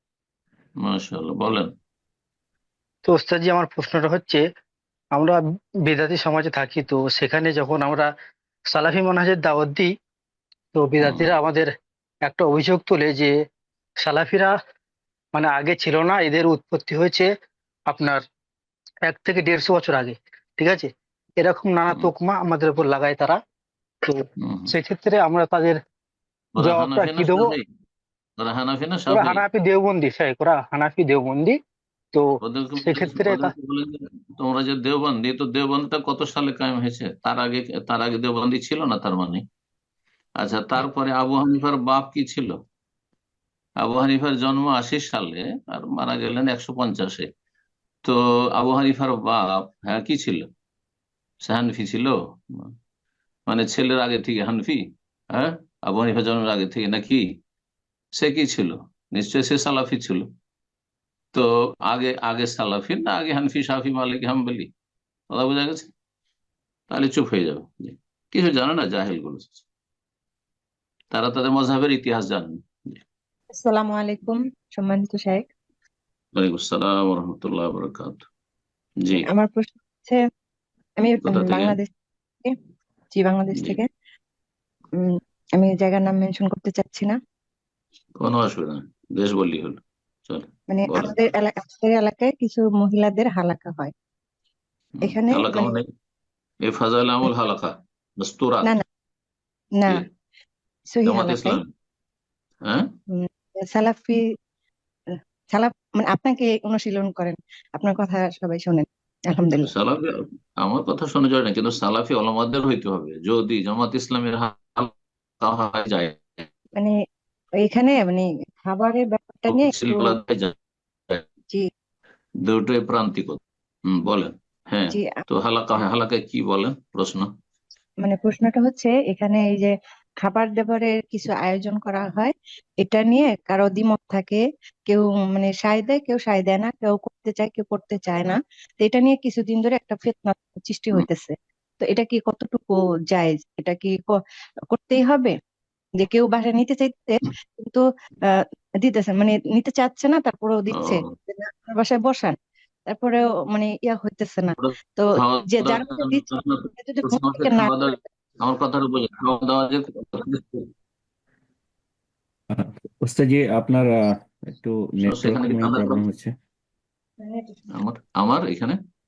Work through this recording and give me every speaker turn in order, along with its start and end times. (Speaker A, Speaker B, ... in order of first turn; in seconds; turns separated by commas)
Speaker A: 0.8-1.7, Speaker B: 3.0-4.4, Speaker B: 5.1-8.1, Speaker B: 8.7-9.9, Speaker B: 10.7-11.7, Speaker A: 11.0-11.3, Speaker B: 12.2-13.3, Speaker B: 14.0-14.5, Speaker B: 15.3-17.3, Speaker B: 17.9-18.2, Speaker B: 19.0-23.4, Speaker B: 24.0-25.8, Speaker A: 24.4-24.7, Speaker A: 26.5-27.6, Speaker B: 26.6-27.5, Speaker A: 28.4-29.4, Speaker B: 29.1-31.6, Speaker A: 32.4-39.4, Speaker B: 32.8-33.5, Speaker A: 40.4-42.5, Speaker A: 43.8-47.3, Speaker A: 48.0-50.5, Speaker A: 51.4-52.7, Speaker A: 53.5-57.2, Speaker A: 58.2-60.3, Speaker A: 61.3-64.7, Speaker A: 65.3-65.9, Speaker A: 66.9-69.6, Speaker A: 71.1-73.0, Speaker C: 73.6-75.4, Speaker A: 76.3-78.3, Speaker C: 79.3-80.2, Speaker C: 81.0-81.9, Speaker A: 81.2-81.8, Speaker C: 83.1-83.9, Speaker C: 85.0-87.2, Speaker A: 88.2-91.1, Speaker C: 90.7-93.9, Speaker A: 95.0-95.8, Speaker C: 95.0-95.7, Speaker A: 96.7-98.7, Speaker C: 99.8-100.0, Speaker C: 100.9-101.6, Speaker A: 101.0-101.6, Speaker C: 103.1-104.2, Speaker C: 105.5-109.7, Speaker A: 109.6-114.9, Speaker A: 115.4-116.5, Speaker C: 117.6-120.2, Speaker A: 119.5-120.5, Speaker A: 122.5-127.3, Speaker C: 128.0-144.2, Speaker C: 144.7-145.3, Speaker C: 146.0-147.8, Speaker C: 148.8-152.3, Speaker A: 150.7-151.1, Speaker C: 152.9-156.2, Speaker A: 154.6-160.7, Speaker C: 156.8-158.0, Speaker D: 162.5-166.3, Speaker A: 165.0-166.0, Speaker C: 167.2-167.6, Speaker A: 167.7-168.8